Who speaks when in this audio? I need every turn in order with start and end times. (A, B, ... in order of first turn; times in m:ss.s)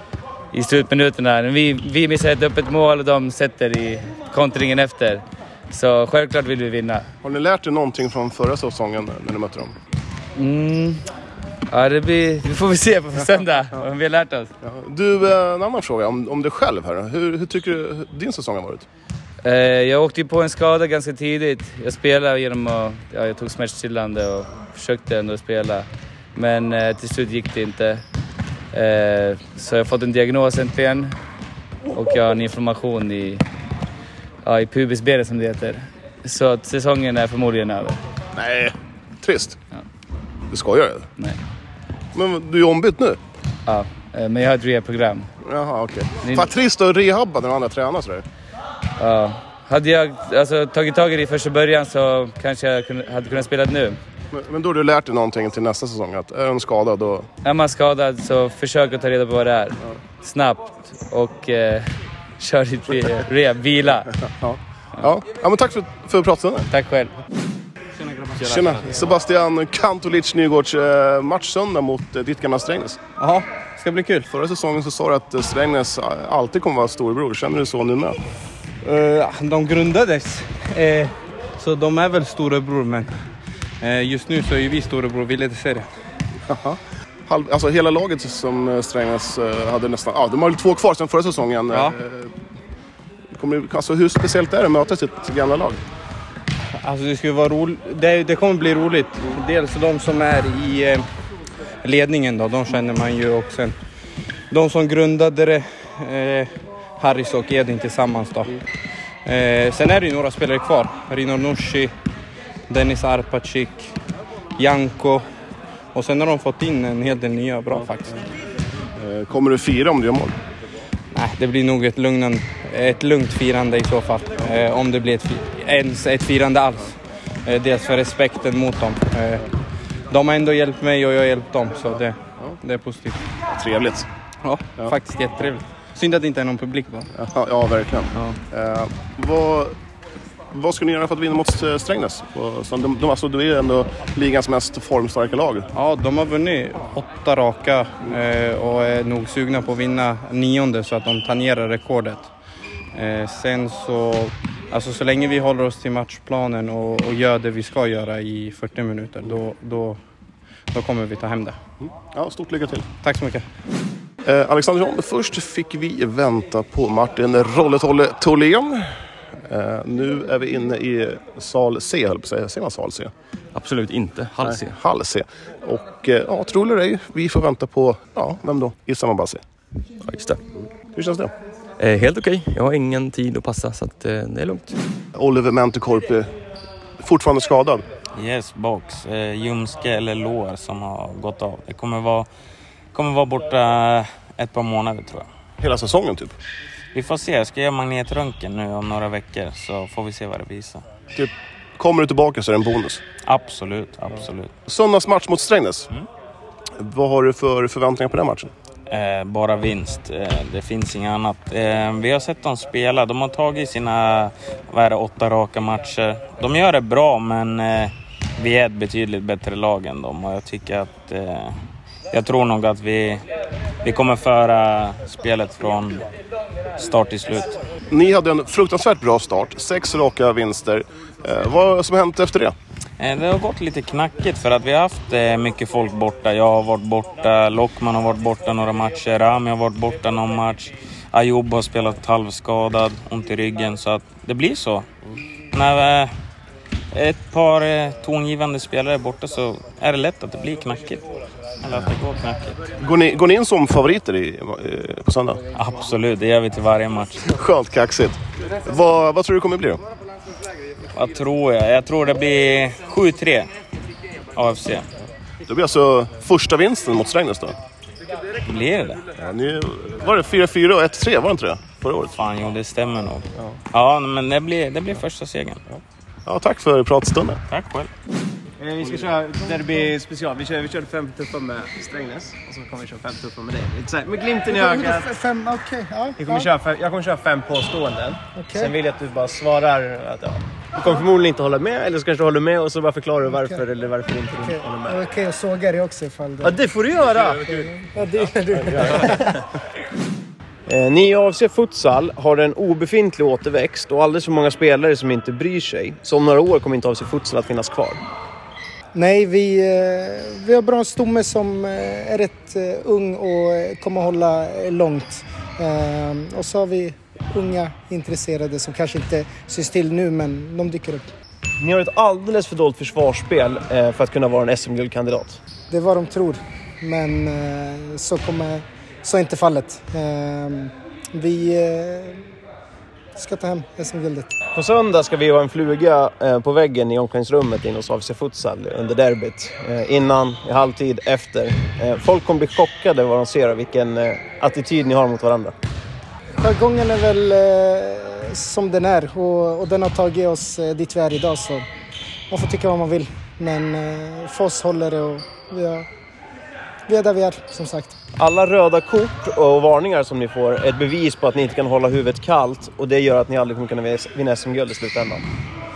0:00.5-0:07.0 A
0:07.2-0:09.7 B
0:10.4-0:11.1 A
0:11.7-0:14.5 A
0:14.6-0:18.9 B
0:19.4-0:28.0 A
0:28.7-0:31.2 A
0:31.9-0:33.4 A
0:34.4-0:38.0 A
0:38.4-0:39.6 B
0:40.5-0:41.1 B
0:42.1-0:43.2 B
0:43.7-0:45.3 A
0:45.4-0:48.2 B
0:46.2-0:46.5 A
0:49.0-0:54.0 A
0:54.3-0:57.3 B
0:57.4-1:04.1 A
1:04.4-1:06.7 B
1:06.7-1:07.2 A
1:08.4-1:08.9 C
1:08.4-1:13.0 B
1:13.2-1:14.3 D
1:14.3-1:18.2 B
1:18.8-1:23.1 D
1:23.8-1:25.9 D
1:26.5-1:32.4 B
1:33.3-1:35.8 B
1:36.8-1:41.0 D
1:41.8-1:43.7 D
1:44.5-1:48.6 D
1:49.2-1:51.9 D
1:52.7-1:53.9 D
1:54.6-1:55.2 D
1:55.9-1:58.1 D
1:59.0-2:00.4 B
2:01.1-2:09.5 D
2:10.1-2:13.2 D
2:13.4-2:14.1 B
2:14.4-2:17.1 D
2:17.1-2:19.8 B
2:18.1-2:18.4 D
2:20.5-2:25.7 B
2:25.7-2:32.3 D
2:32.9-2:40.0 D
2:40.7-2:41.6 D
2:41.8-2:42.9 B
2:43.0-2:43.4 D
2:44.2-2:53.1 B
2:53.5-2:54.8 C
2:54.4-2:59.4 B
3:00.0-3:00.4 C
3:00.9-3:01.3 B
3:01.8-3:04.7 C
3:05.1-3:06.4 B
3:07.0-3:07.8 B
3:08.1-3:12.3 E
3:12.9-3:15.3 E
3:15.6-3:16.4 B
3:16.9-3:20.9 E
3:21.1-3:23.0 B
3:23.2-3:24.5 E
3:24.6-3:25.9 B
3:26.8-3:28.5 B
3:28.9-3:41.6 E
3:42.1-3:43.2 E
3:43.8-3:46.1 E
3:46.8-3:47.6 E
3:47.9-3:52.5 B
3:53.0-4:04.9 E
4:05.5-4:06.1 E
4:06.9-4:11.1 E
4:11.6-4:12.6 E
4:12.8-4:15.4 B
4:15.5-4:17.2 E
4:17.2-4:19.8 B
4:20.9-4:23.5 E
4:24.4-4:24.9 E
4:25.4-4:27.6 B
4:28.4-4:29.0 E
4:29.2-4:32.1 B
4:32.1-4:35.6 E
4:36.2-4:37.4 B
4:37.5-4:37.9 E
4:38.6-4:45.1 F
4:44.4-4:46.5 G
4:46.2-4:55.0 F
4:48.4-4:48.7 G
4:53.2-4:53.6 G
4:54.4-4:56.6 G
4:56.4-4:57.5 F
4:57.2-4:57.5 C
4:57.4-4:59.4 G
5:00.7-5:08.0 F
5:08.9-5:21.1 G
5:21.6-5:25.4 F
5:25.7-5:32.2 G
5:33.2-5:34.3 G
5:34.5-5:45.5 F
5:46.4-5:51.6 G
5:52.3-5:55.9 G
5:56.9-5:57.9 G
5:58.2-6:05.2 F